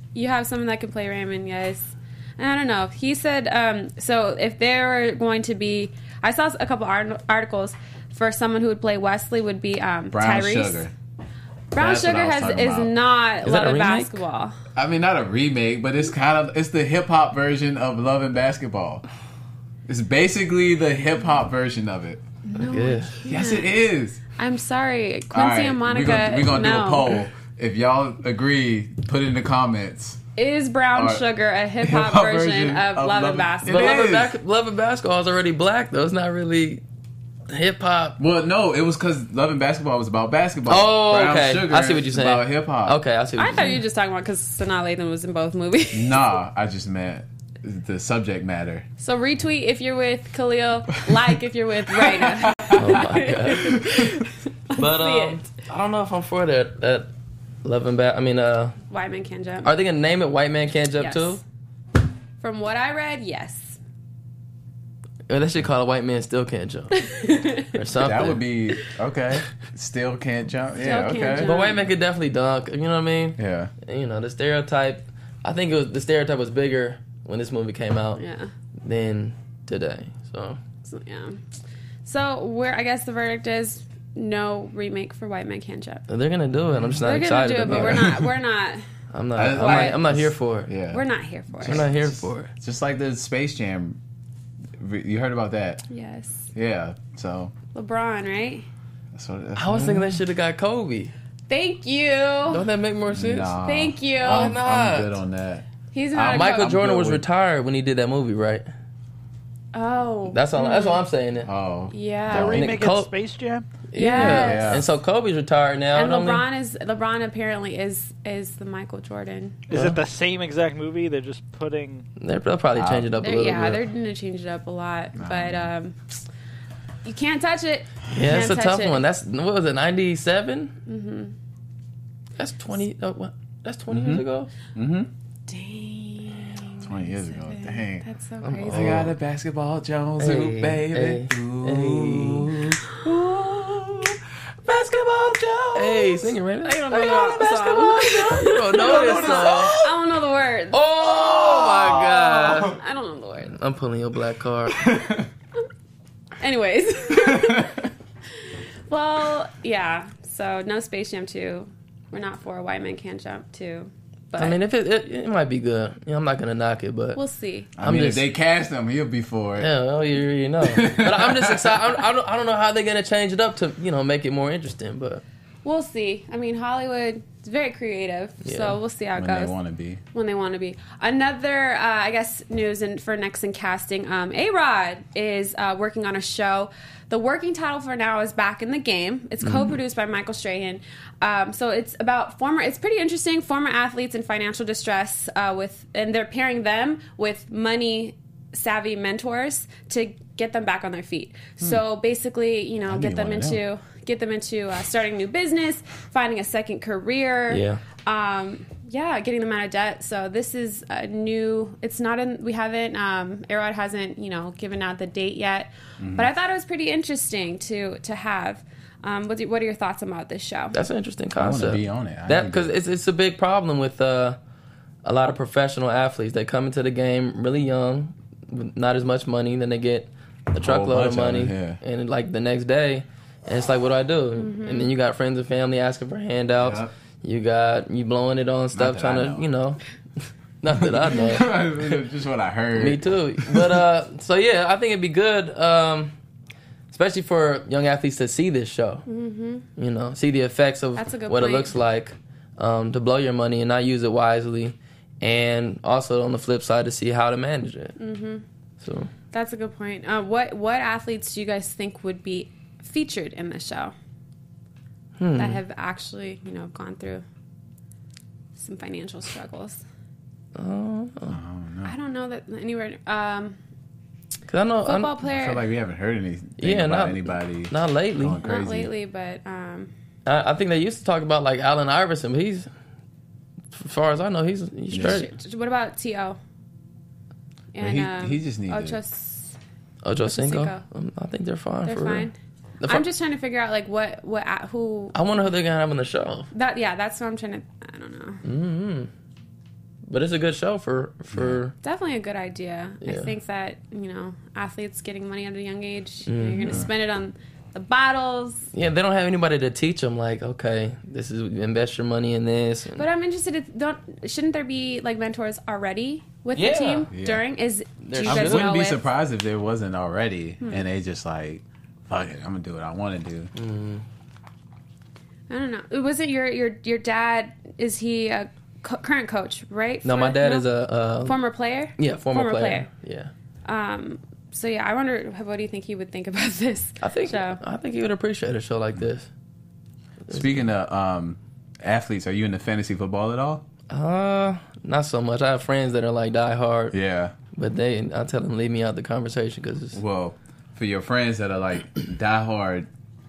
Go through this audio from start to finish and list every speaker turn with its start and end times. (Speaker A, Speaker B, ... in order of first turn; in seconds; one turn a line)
Speaker A: 0.1-10.9
Speaker B: 10.1-10.9
Speaker A: 11.7-14.6
Speaker B: 11.8-13.0
Speaker C: 13.4-14.2
Speaker B: 14.8-19.1
Speaker B: 19.9-22.2
Speaker A: 22.5-23.7
Speaker C: 22.6-23.2
Speaker B: 23.3-24.2
Speaker A: 24.4-27.2
Speaker B: 25.3-30.2
Speaker A: 30.4-34.0
Speaker B: 30.9-31.2
Speaker B: 31.8-34.3
Speaker C: 33.7-36.8
Speaker C: 37.5-38.2
Speaker B: 38.2-43.0
Speaker C: 40.7-43.8
Speaker A: 43.4-46.3
Speaker B: 45.9-48.9
Speaker A: 49.0-55.5
Speaker B: 51.9-53.0
Speaker C: 52.7-53.9
Speaker B: 53.6-54.0
Speaker C: 54.8-57.1
Speaker C: 57.6-58.8
Speaker A: 58.9-59.7
Speaker C: 59.6-61.4
Speaker A: 61.0-61.4
Speaker A: 62.4-63.8
Speaker C: 65.3-68.4
Speaker A: 67.0-67.7
Speaker B: 68.0-71.6
Speaker A: 70.8-71.8
Speaker C: 71.4-78.2
Speaker B: 73.4-73.7
Speaker A: 78.2-78.5
Speaker C: 78.8-80.6
Speaker A: 80.8-81.4
Speaker A: 82.0-86.0
Speaker C: 86.1-88.2
Speaker B: 86.7-87.1
Speaker A: 87.0-88.8
Speaker B: 87.7-88.3
Speaker C: 89.1-90.7
Speaker B: 89.3-91.0
Speaker A: 89.6-90.0
Speaker A: 90.9-91.8
Speaker B: 91.6-94.0
Speaker C: 91.7-92.5
Speaker B: 94.8-95.8
Speaker A: 95.9-96.5
Speaker B: 96.5-97.5
Speaker A: 97.7-98.7
Speaker B: 99.1-100.2
Speaker C: 99.6-101.1
Speaker A: 101.5-102.6
Speaker C: 102.5-103.5
Speaker B: 103.1-107.2
Speaker A: 103.6-104.6
Speaker C: 104.2-105.2
Speaker A: 105.9-106.8
Speaker C: 106.3-108.7
Speaker A: 109.7-111.0
Speaker C: 110.3-111.5
Speaker B: 111.4-112.7
Speaker A: 111.9-112.5
Speaker D: 112.3-113.7
Speaker C: 112.3-113.1
Speaker C: 113.9-116.5
Speaker A: 114.0-114.8
Speaker B: 114.1-114.9
Speaker A: 115.9-119.6
Speaker D: 119.7-122.1
Speaker C: 119.7-120.0
Speaker C: 122.2-123.8
Speaker B: 122.8-123.1
Speaker A: 123.2-126.0
Speaker B: 125.2-125.7
Speaker A: 127.0-129.0
Speaker C: 128.1-130.7
Speaker A: 130.9-131.4
Speaker C: 132.4-134.5
Speaker B: 133.9-135.1
Speaker A: 135.5-139.1
Speaker B: 136.8-138.1
Speaker C: 138.4-139.1
Speaker B: 138.7-146.4
Speaker C: 140.2-142.6
Speaker C: 145.7-149.8
Speaker A: 146.7-153.5
Speaker B: 147.1-147.4
Speaker B: 148.7-149.9
Speaker C: 150.7-152.8
Speaker B: 151.1-152.7
Speaker C: 153.5-154.9
Speaker B: 154.7-155.3
Speaker A: 156.4-157.9
Speaker B: 157.3-157.6
Speaker A: 158.9-164.6
Speaker C: 164.4-167.2
Speaker A: 167.2-167.7
Speaker B: 167.8-169.7
Speaker C: 167.8-168.2
Speaker C: 169.6-175.2
Speaker B: 170.6-171.9
Speaker A: 175.6-179.6
Speaker C: 178.4-178.8
Speaker B: 179.2-180.0
Speaker A: 180.1-220.8
Speaker B: 189.4-189.8
Speaker B: 202.9-203.6
Speaker C: 207.5-207.8
Speaker B: 216.0-216.3
Speaker C: 220.7-224.4
Speaker B: 221.4-222.7
Speaker C: 225.1-239.8
Speaker B: 230.6-231.8
Speaker A: 234.4-234.9
Speaker B: 236.6-236.9
Speaker B: 238.7-239.5
Speaker C: 240.6-242.0
Speaker B: 240.7-243.8
Speaker C: 242.8-246.1
Speaker C: 246.9-249.1
Speaker A: 249.1-249.7
Speaker C: 249.8-258.0
Speaker A: 251.0-251.7
Speaker A: 258.0-258.4
Speaker C: 258.8-259.1
Speaker A: 259.3-263.9
Speaker C: 265.2-265.6
Speaker A: 265.4-267.2
Speaker A: 268.6-269.8
Speaker C: 270.6-271.4
Speaker B: 271.3-271.9
Speaker A: 271.9-273.6
Speaker C: 274.5-275.1
Speaker A: 274.9-275.6
Speaker B: 275.2-278.9
Speaker C: 276.6-278.4
Speaker A: 278.4-279.9
Speaker C: 280.3-282.7
Speaker C: 283.7-285.3
Speaker B: 284.9-285.2
Speaker A: 285.0-286.4
Speaker A: 287.7-289.6
Speaker B: 287.8-289.0
Speaker C: 290.0-292.3
Speaker A: 290.2-290.8
Speaker A: 291.9-295.1
Speaker C: 295.1-296.5
Speaker A: 296.5-298.4
Speaker C: 298.4-299.1
Speaker C: 300.1-301.7
Speaker B: 301.3-301.6
Speaker A: 301.8-308.7
Speaker C: 303.0-303.3
Speaker C: 306.3-306.9
Speaker C: 308.7-313.0
Speaker A: 313.0-319.0
Speaker C: 316.6-317.1
Speaker B: 317.1-317.4
Speaker C: 318.1-318.7
Speaker B: 318.2-323.5
Speaker C: 323.6-324.0
Speaker A: 325.5-330.7
Speaker C: 330.0-331.4
Speaker A: 331.2-332.9
Speaker C: 332.0-333.3
Speaker A: 333.6-337.6
Speaker C: 337.0-339.3
Speaker C: 340.3-340.6
Speaker B: 340.3-343.6
Speaker C: 343.9-346.9
Speaker B: 346.9-347.4
Speaker C: 347.6-350.0
Speaker B: 349.9-352.9